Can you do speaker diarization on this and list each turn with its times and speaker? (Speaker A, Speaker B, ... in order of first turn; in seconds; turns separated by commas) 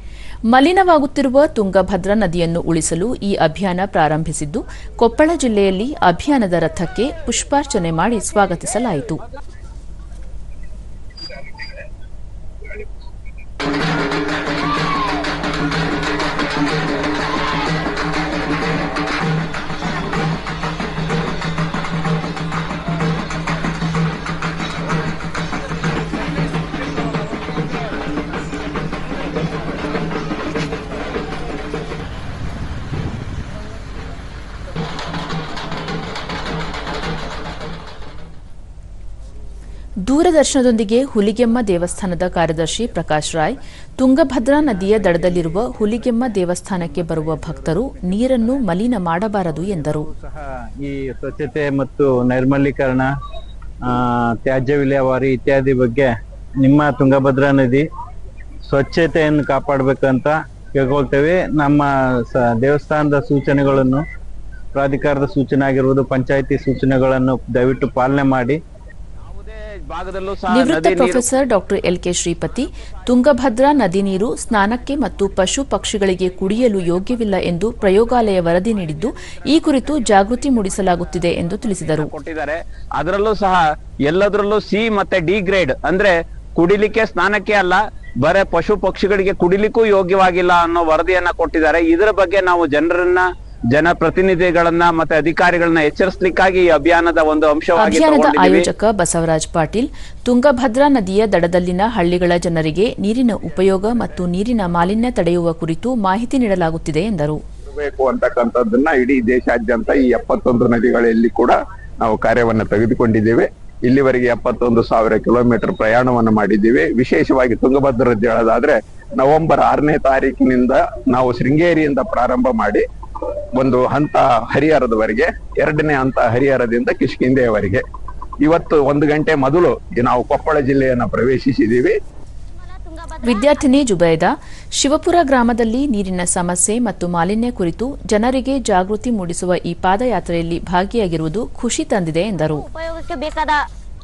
Speaker A: 0.5-9.2, Speaker A: 40.1-50.1, Speaker B: 44.9-48.4, Speaker B: 49.5-53.1, Speaker B: 53.8-57.9, Speaker B: 58.7-64.0, Speaker B: 64.7-68.6, Speaker C: 69.2-71.3, Speaker A: 70.5-82.1, Speaker C: 81.7-98.7, Speaker A: 97.8-107.4, Speaker D: 107.7-122.8, Speaker D: 123.5-127.8, Speaker D: 128.4-131.9, Speaker E: 132.5-133.6, Speaker A: 133.2-142.6, Speaker E: 142.3-143.6